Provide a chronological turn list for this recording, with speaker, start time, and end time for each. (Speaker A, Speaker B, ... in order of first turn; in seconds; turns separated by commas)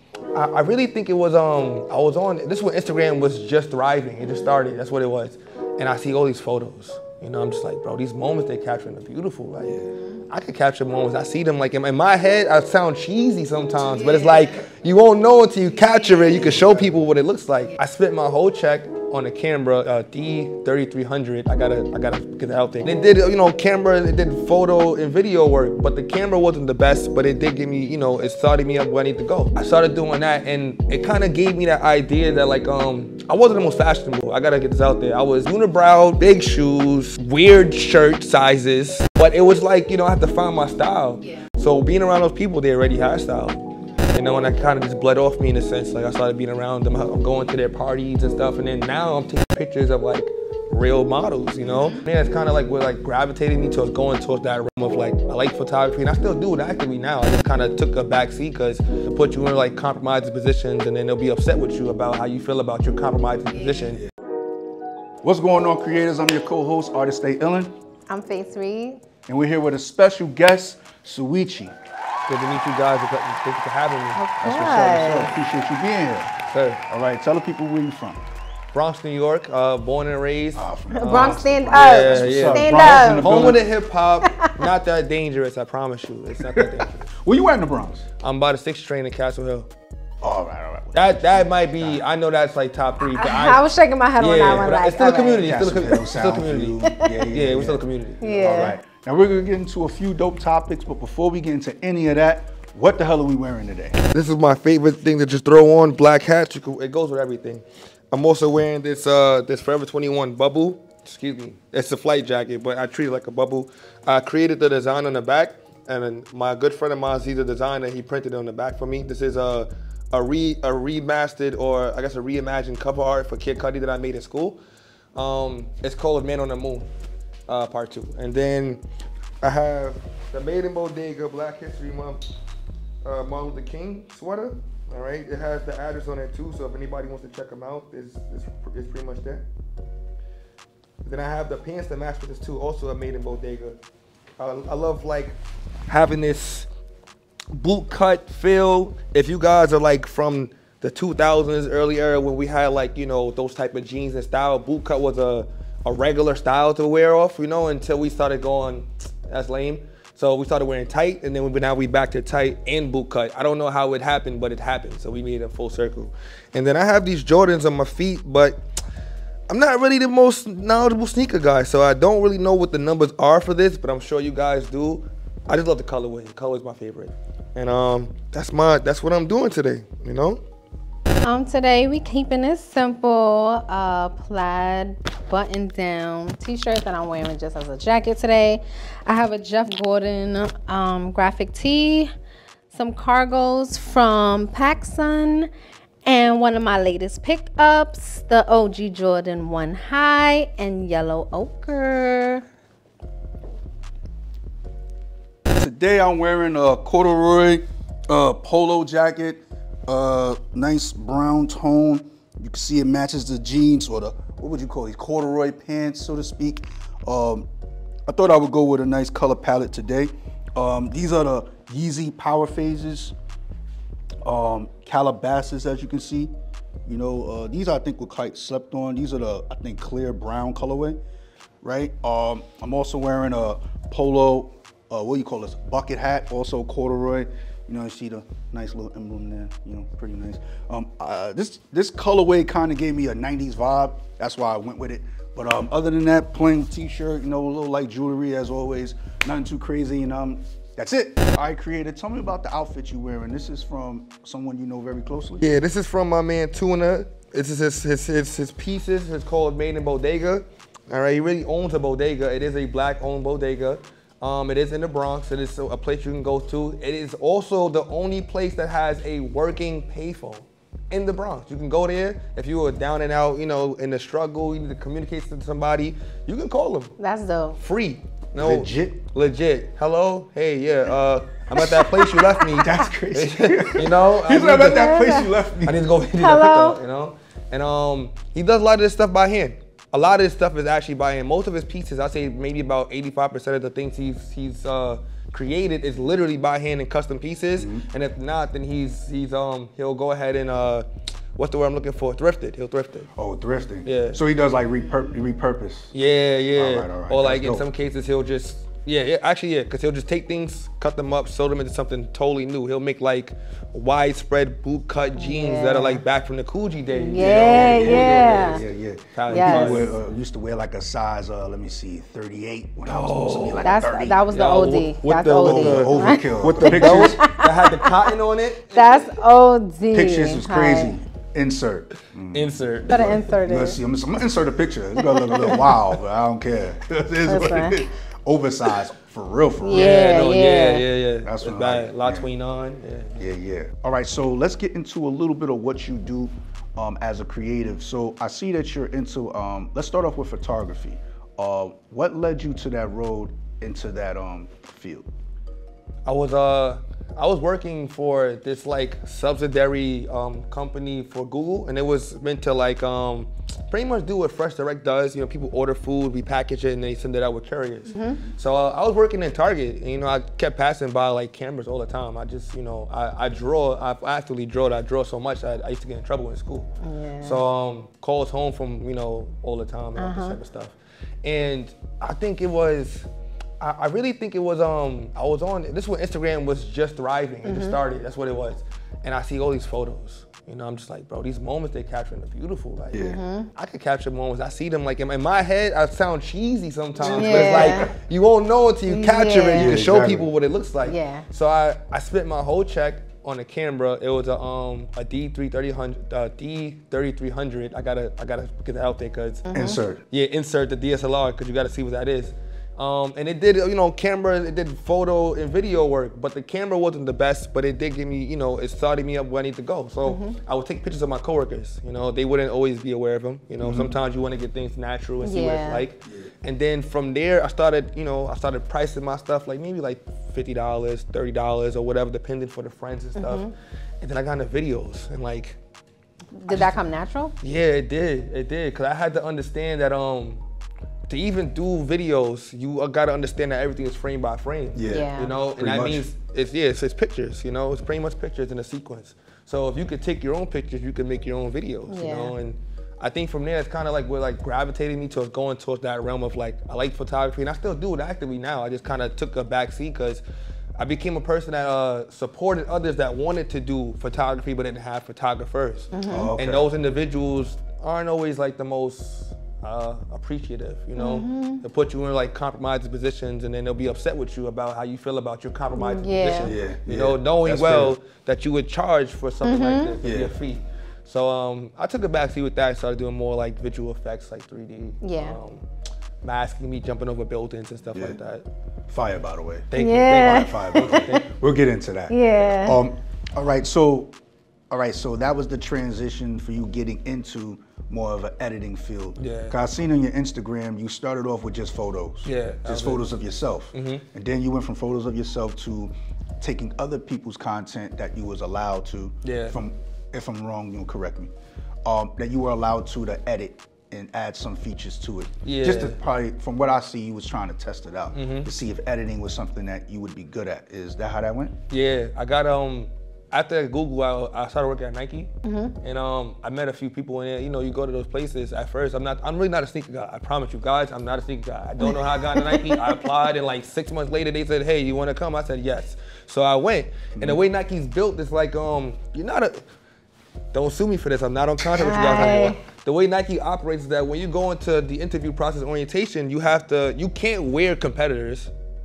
Speaker A: 0.3-64.0, Speaker B: 9.6-9.9, Speaker C: 14.1-14.4, Speaker B: 16.3-16.9, Speaker B: 65.2-67.7, Speaker C: 68.1-69.0, Speaker B: 69.3-71.8, Speaker A: 72.3-74.2, Speaker C: 74.2-75.3, Speaker B: 74.4-76.3, Speaker A: 76.5-76.8, Speaker B: 76.9-78.2, Speaker A: 78.7-87.1, Speaker B: 80.5-83.6, Speaker C: 80.9-83.5, Speaker C: 84.2-84.7, Speaker B: 86.4-88.0, Speaker A: 88.2-89.7, Speaker B: 90.2-92.0, Speaker A: 90.9-93.6, Speaker C: 93.0-95.6, Speaker A: 94.2-96.8, Speaker B: 95.4-97.8, Speaker C: 96.8-97.2, Speaker A: 97.3-98.7, Speaker C: 98.2-98.8, Speaker B: 98.4-104.0, Speaker A: 104.0-124.6, Speaker A: 125.1-126.9, Speaker A: 127.5-128.8, Speaker A: 129.4-132.2, Speaker A: 133.0-139.4, Speaker A: 141.0-143.8, Speaker A: 144.4-146.7, Speaker A: 147.5-168.6, Speaker A: 169.5-180.4, Speaker C: 181.2-192.1, Speaker C: 192.7-195.5, Speaker C: 196.0-202.4, Speaker B: 205.5-217.5, Speaker B: 218.1-223.1, Speaker B: 224.2-226.3, Speaker B: 226.8-231.0, Speaker B: 231.6-255.4, Speaker A: 255.4-276.9, Speaker C: 277.0-277.6, Speaker A: 277.6-285.1, Speaker B: 278.4-279.0, Speaker B: 281.5-285.8, Speaker C: 282.4-282.7, Speaker C: 284.5-285.3, Speaker A: 285.6-303.1, Speaker C: 286.2-286.8, Speaker B: 297.6-297.8, Speaker B: 303.1-305.9, Speaker A: 303.8-304.2, Speaker A: 305.9-319.9, Speaker B: 306.6-307.6, Speaker C: 315.1-316.0, Speaker C: 316.9-318.6, Speaker B: 317.1-324.2, Speaker C: 319.3-320.0, Speaker A: 322.9-329.1, Speaker C: 323.6-328.1, Speaker B: 325.4-327.3, Speaker C: 328.7-330.9, Speaker B: 329.9-340.2, Speaker A: 332.3-333.3, Speaker C: 332.9-333.8, Speaker C: 335.0-335.7, Speaker C: 337.2-337.8, Speaker C: 339.6-340.8, Speaker A: 339.7-343.2, Speaker B: 341.2-342.3, Speaker B: 343.2-355.1, Speaker A: 356.0-376.7, Speaker C: 367.9-368.2, Speaker C: 376.8-377.4, Speaker A: 377.2-383.1, Speaker C: 380.0-380.4, Speaker A: 383.6-409.4, Speaker C: 387.4-387.8, Speaker B: 392.9-393.2, Speaker C: 392.9-393.5, Speaker C: 397.0-397.9, Speaker B: 397.0-397.9, Speaker C: 398.9-399.8, Speaker B: 399.5-400.3, Speaker C: 400.8-401.2, Speaker C: 409.4-409.8, Speaker B: 409.5-410.0, Speaker A: 410.1-433.5, Speaker C: 420.1-420.4, Speaker B: 423.6-424.0, Speaker C: 425.2-425.8, Speaker C: 433.2-433.5, Speaker A: 434.0-435.6, Speaker C: 436.4-437.3, Speaker A: 436.5-436.8, Speaker A: 437.4-440.4, Speaker A: 441.1-460.2, Speaker B: 444.7-446.1, Speaker C: 444.9-445.4, Speaker C: 451.9-452.3, Speaker A: 460.8-485.6, Speaker C: 465.9-466.3, Speaker B: 466.1-466.6, Speaker C: 471.0-471.6, Speaker C: 475.7-476.5, Speaker B: 476.4-478.0, Speaker C: 479.4-480.0, Speaker B: 480.0-480.3, Speaker C: 485.0-485.4, Speaker A: 486.2-488.4, Speaker B: 488.9-494.1, Speaker A: 489.7-491.3, Speaker C: 489.8-491.2, Speaker C: 492.1-492.8, Speaker B: 494.7-511.3, Speaker A: 499.2-499.6, Speaker A: 502.2-503.0, Speaker A: 503.7-504.0, Speaker A: 509.2-509.6, Speaker B: 511.8-521.6, Speaker A: 515.4-516.0, Speaker A: 518.1-518.5, Speaker A: 521.7-539.6, Speaker C: 525.4-525.7, Speaker C: 531.8-533.1, Speaker B: 537.1-537.4, Speaker A: 540.5-548.5, Speaker C: 541.7-542.6